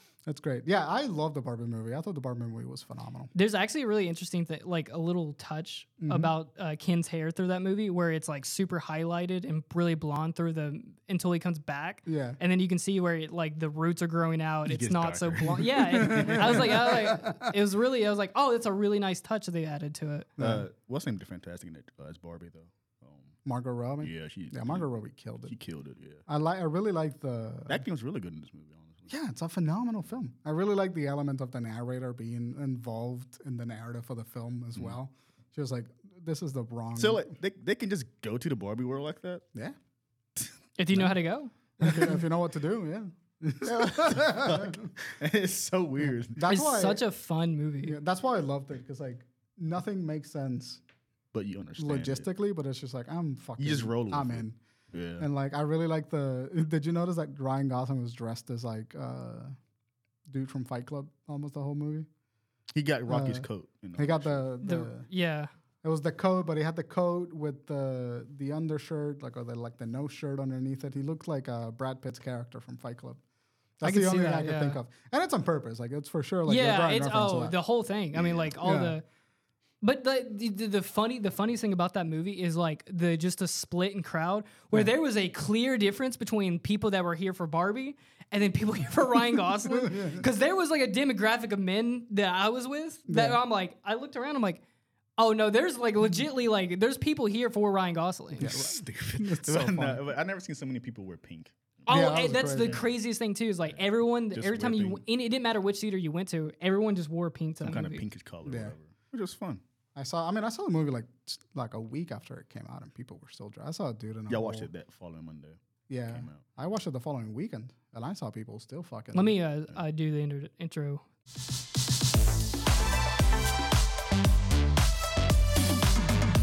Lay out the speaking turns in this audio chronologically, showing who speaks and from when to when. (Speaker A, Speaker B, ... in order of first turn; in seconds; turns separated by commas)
Speaker A: 0.2-3.3, Speaker B: 3.3-20.3, Speaker A: 6.0-6.3, Speaker A: 12.1-12.4, Speaker C: 14.7-16.9, Speaker A: 15.9-17.6, Speaker A: 20.4-20.7, Speaker C: 20.4-23.3, Speaker A: 23.4-25.6, Speaker C: 24.0-24.9, Speaker C: 25.5-26.2, Speaker A: 26.3-27.9, Speaker C: 27.7-29.1, Speaker A: 29.1-37.3, Speaker C: 37.0-39.4, Speaker C: 40.4-41.1, Speaker B: 40.8-41.5, Speaker A: 41.8-44.9, Speaker C: 41.8-42.2, Speaker C: 43.6-46.5, Speaker A: 46.0-47.0, Speaker B: 46.4-48.0, Speaker A: 47.8-50.8, Speaker C: 51.3-52.2, Speaker A: 51.8-54.6, Speaker C: 53.6-55.2, Speaker A: 55.2-59.5, Speaker A: 60.3-62.1, Speaker C: 62.7-64.4, Speaker A: 63.1-63.5, Speaker A: 64.0-65.1, Speaker B: 64.6-65.5, Speaker A: 65.8-73.2, Speaker A: 73.8-77.6, Speaker B: 73.8-74.8, Speaker B: 76.5-79.0, Speaker C: 78.1-78.5, Speaker A: 78.6-79.0, Speaker B: 79.8-94.6, Speaker A: 89.6-90.2, Speaker A: 93.1-93.4, Speaker B: 95.2-98.5, Speaker A: 98.4-100.0, Speaker C: 98.4-102.9, Speaker B: 101.9-108.0, Speaker A: 101.9-102.8, Speaker C: 103.7-105.0, Speaker C: 107.6-109.6, Speaker A: 108.5-108.7, Speaker A: 110.0-114.7, Speaker C: 114.3-116.5, Speaker A: 115.9-119.3, Speaker B: 119.1-121.0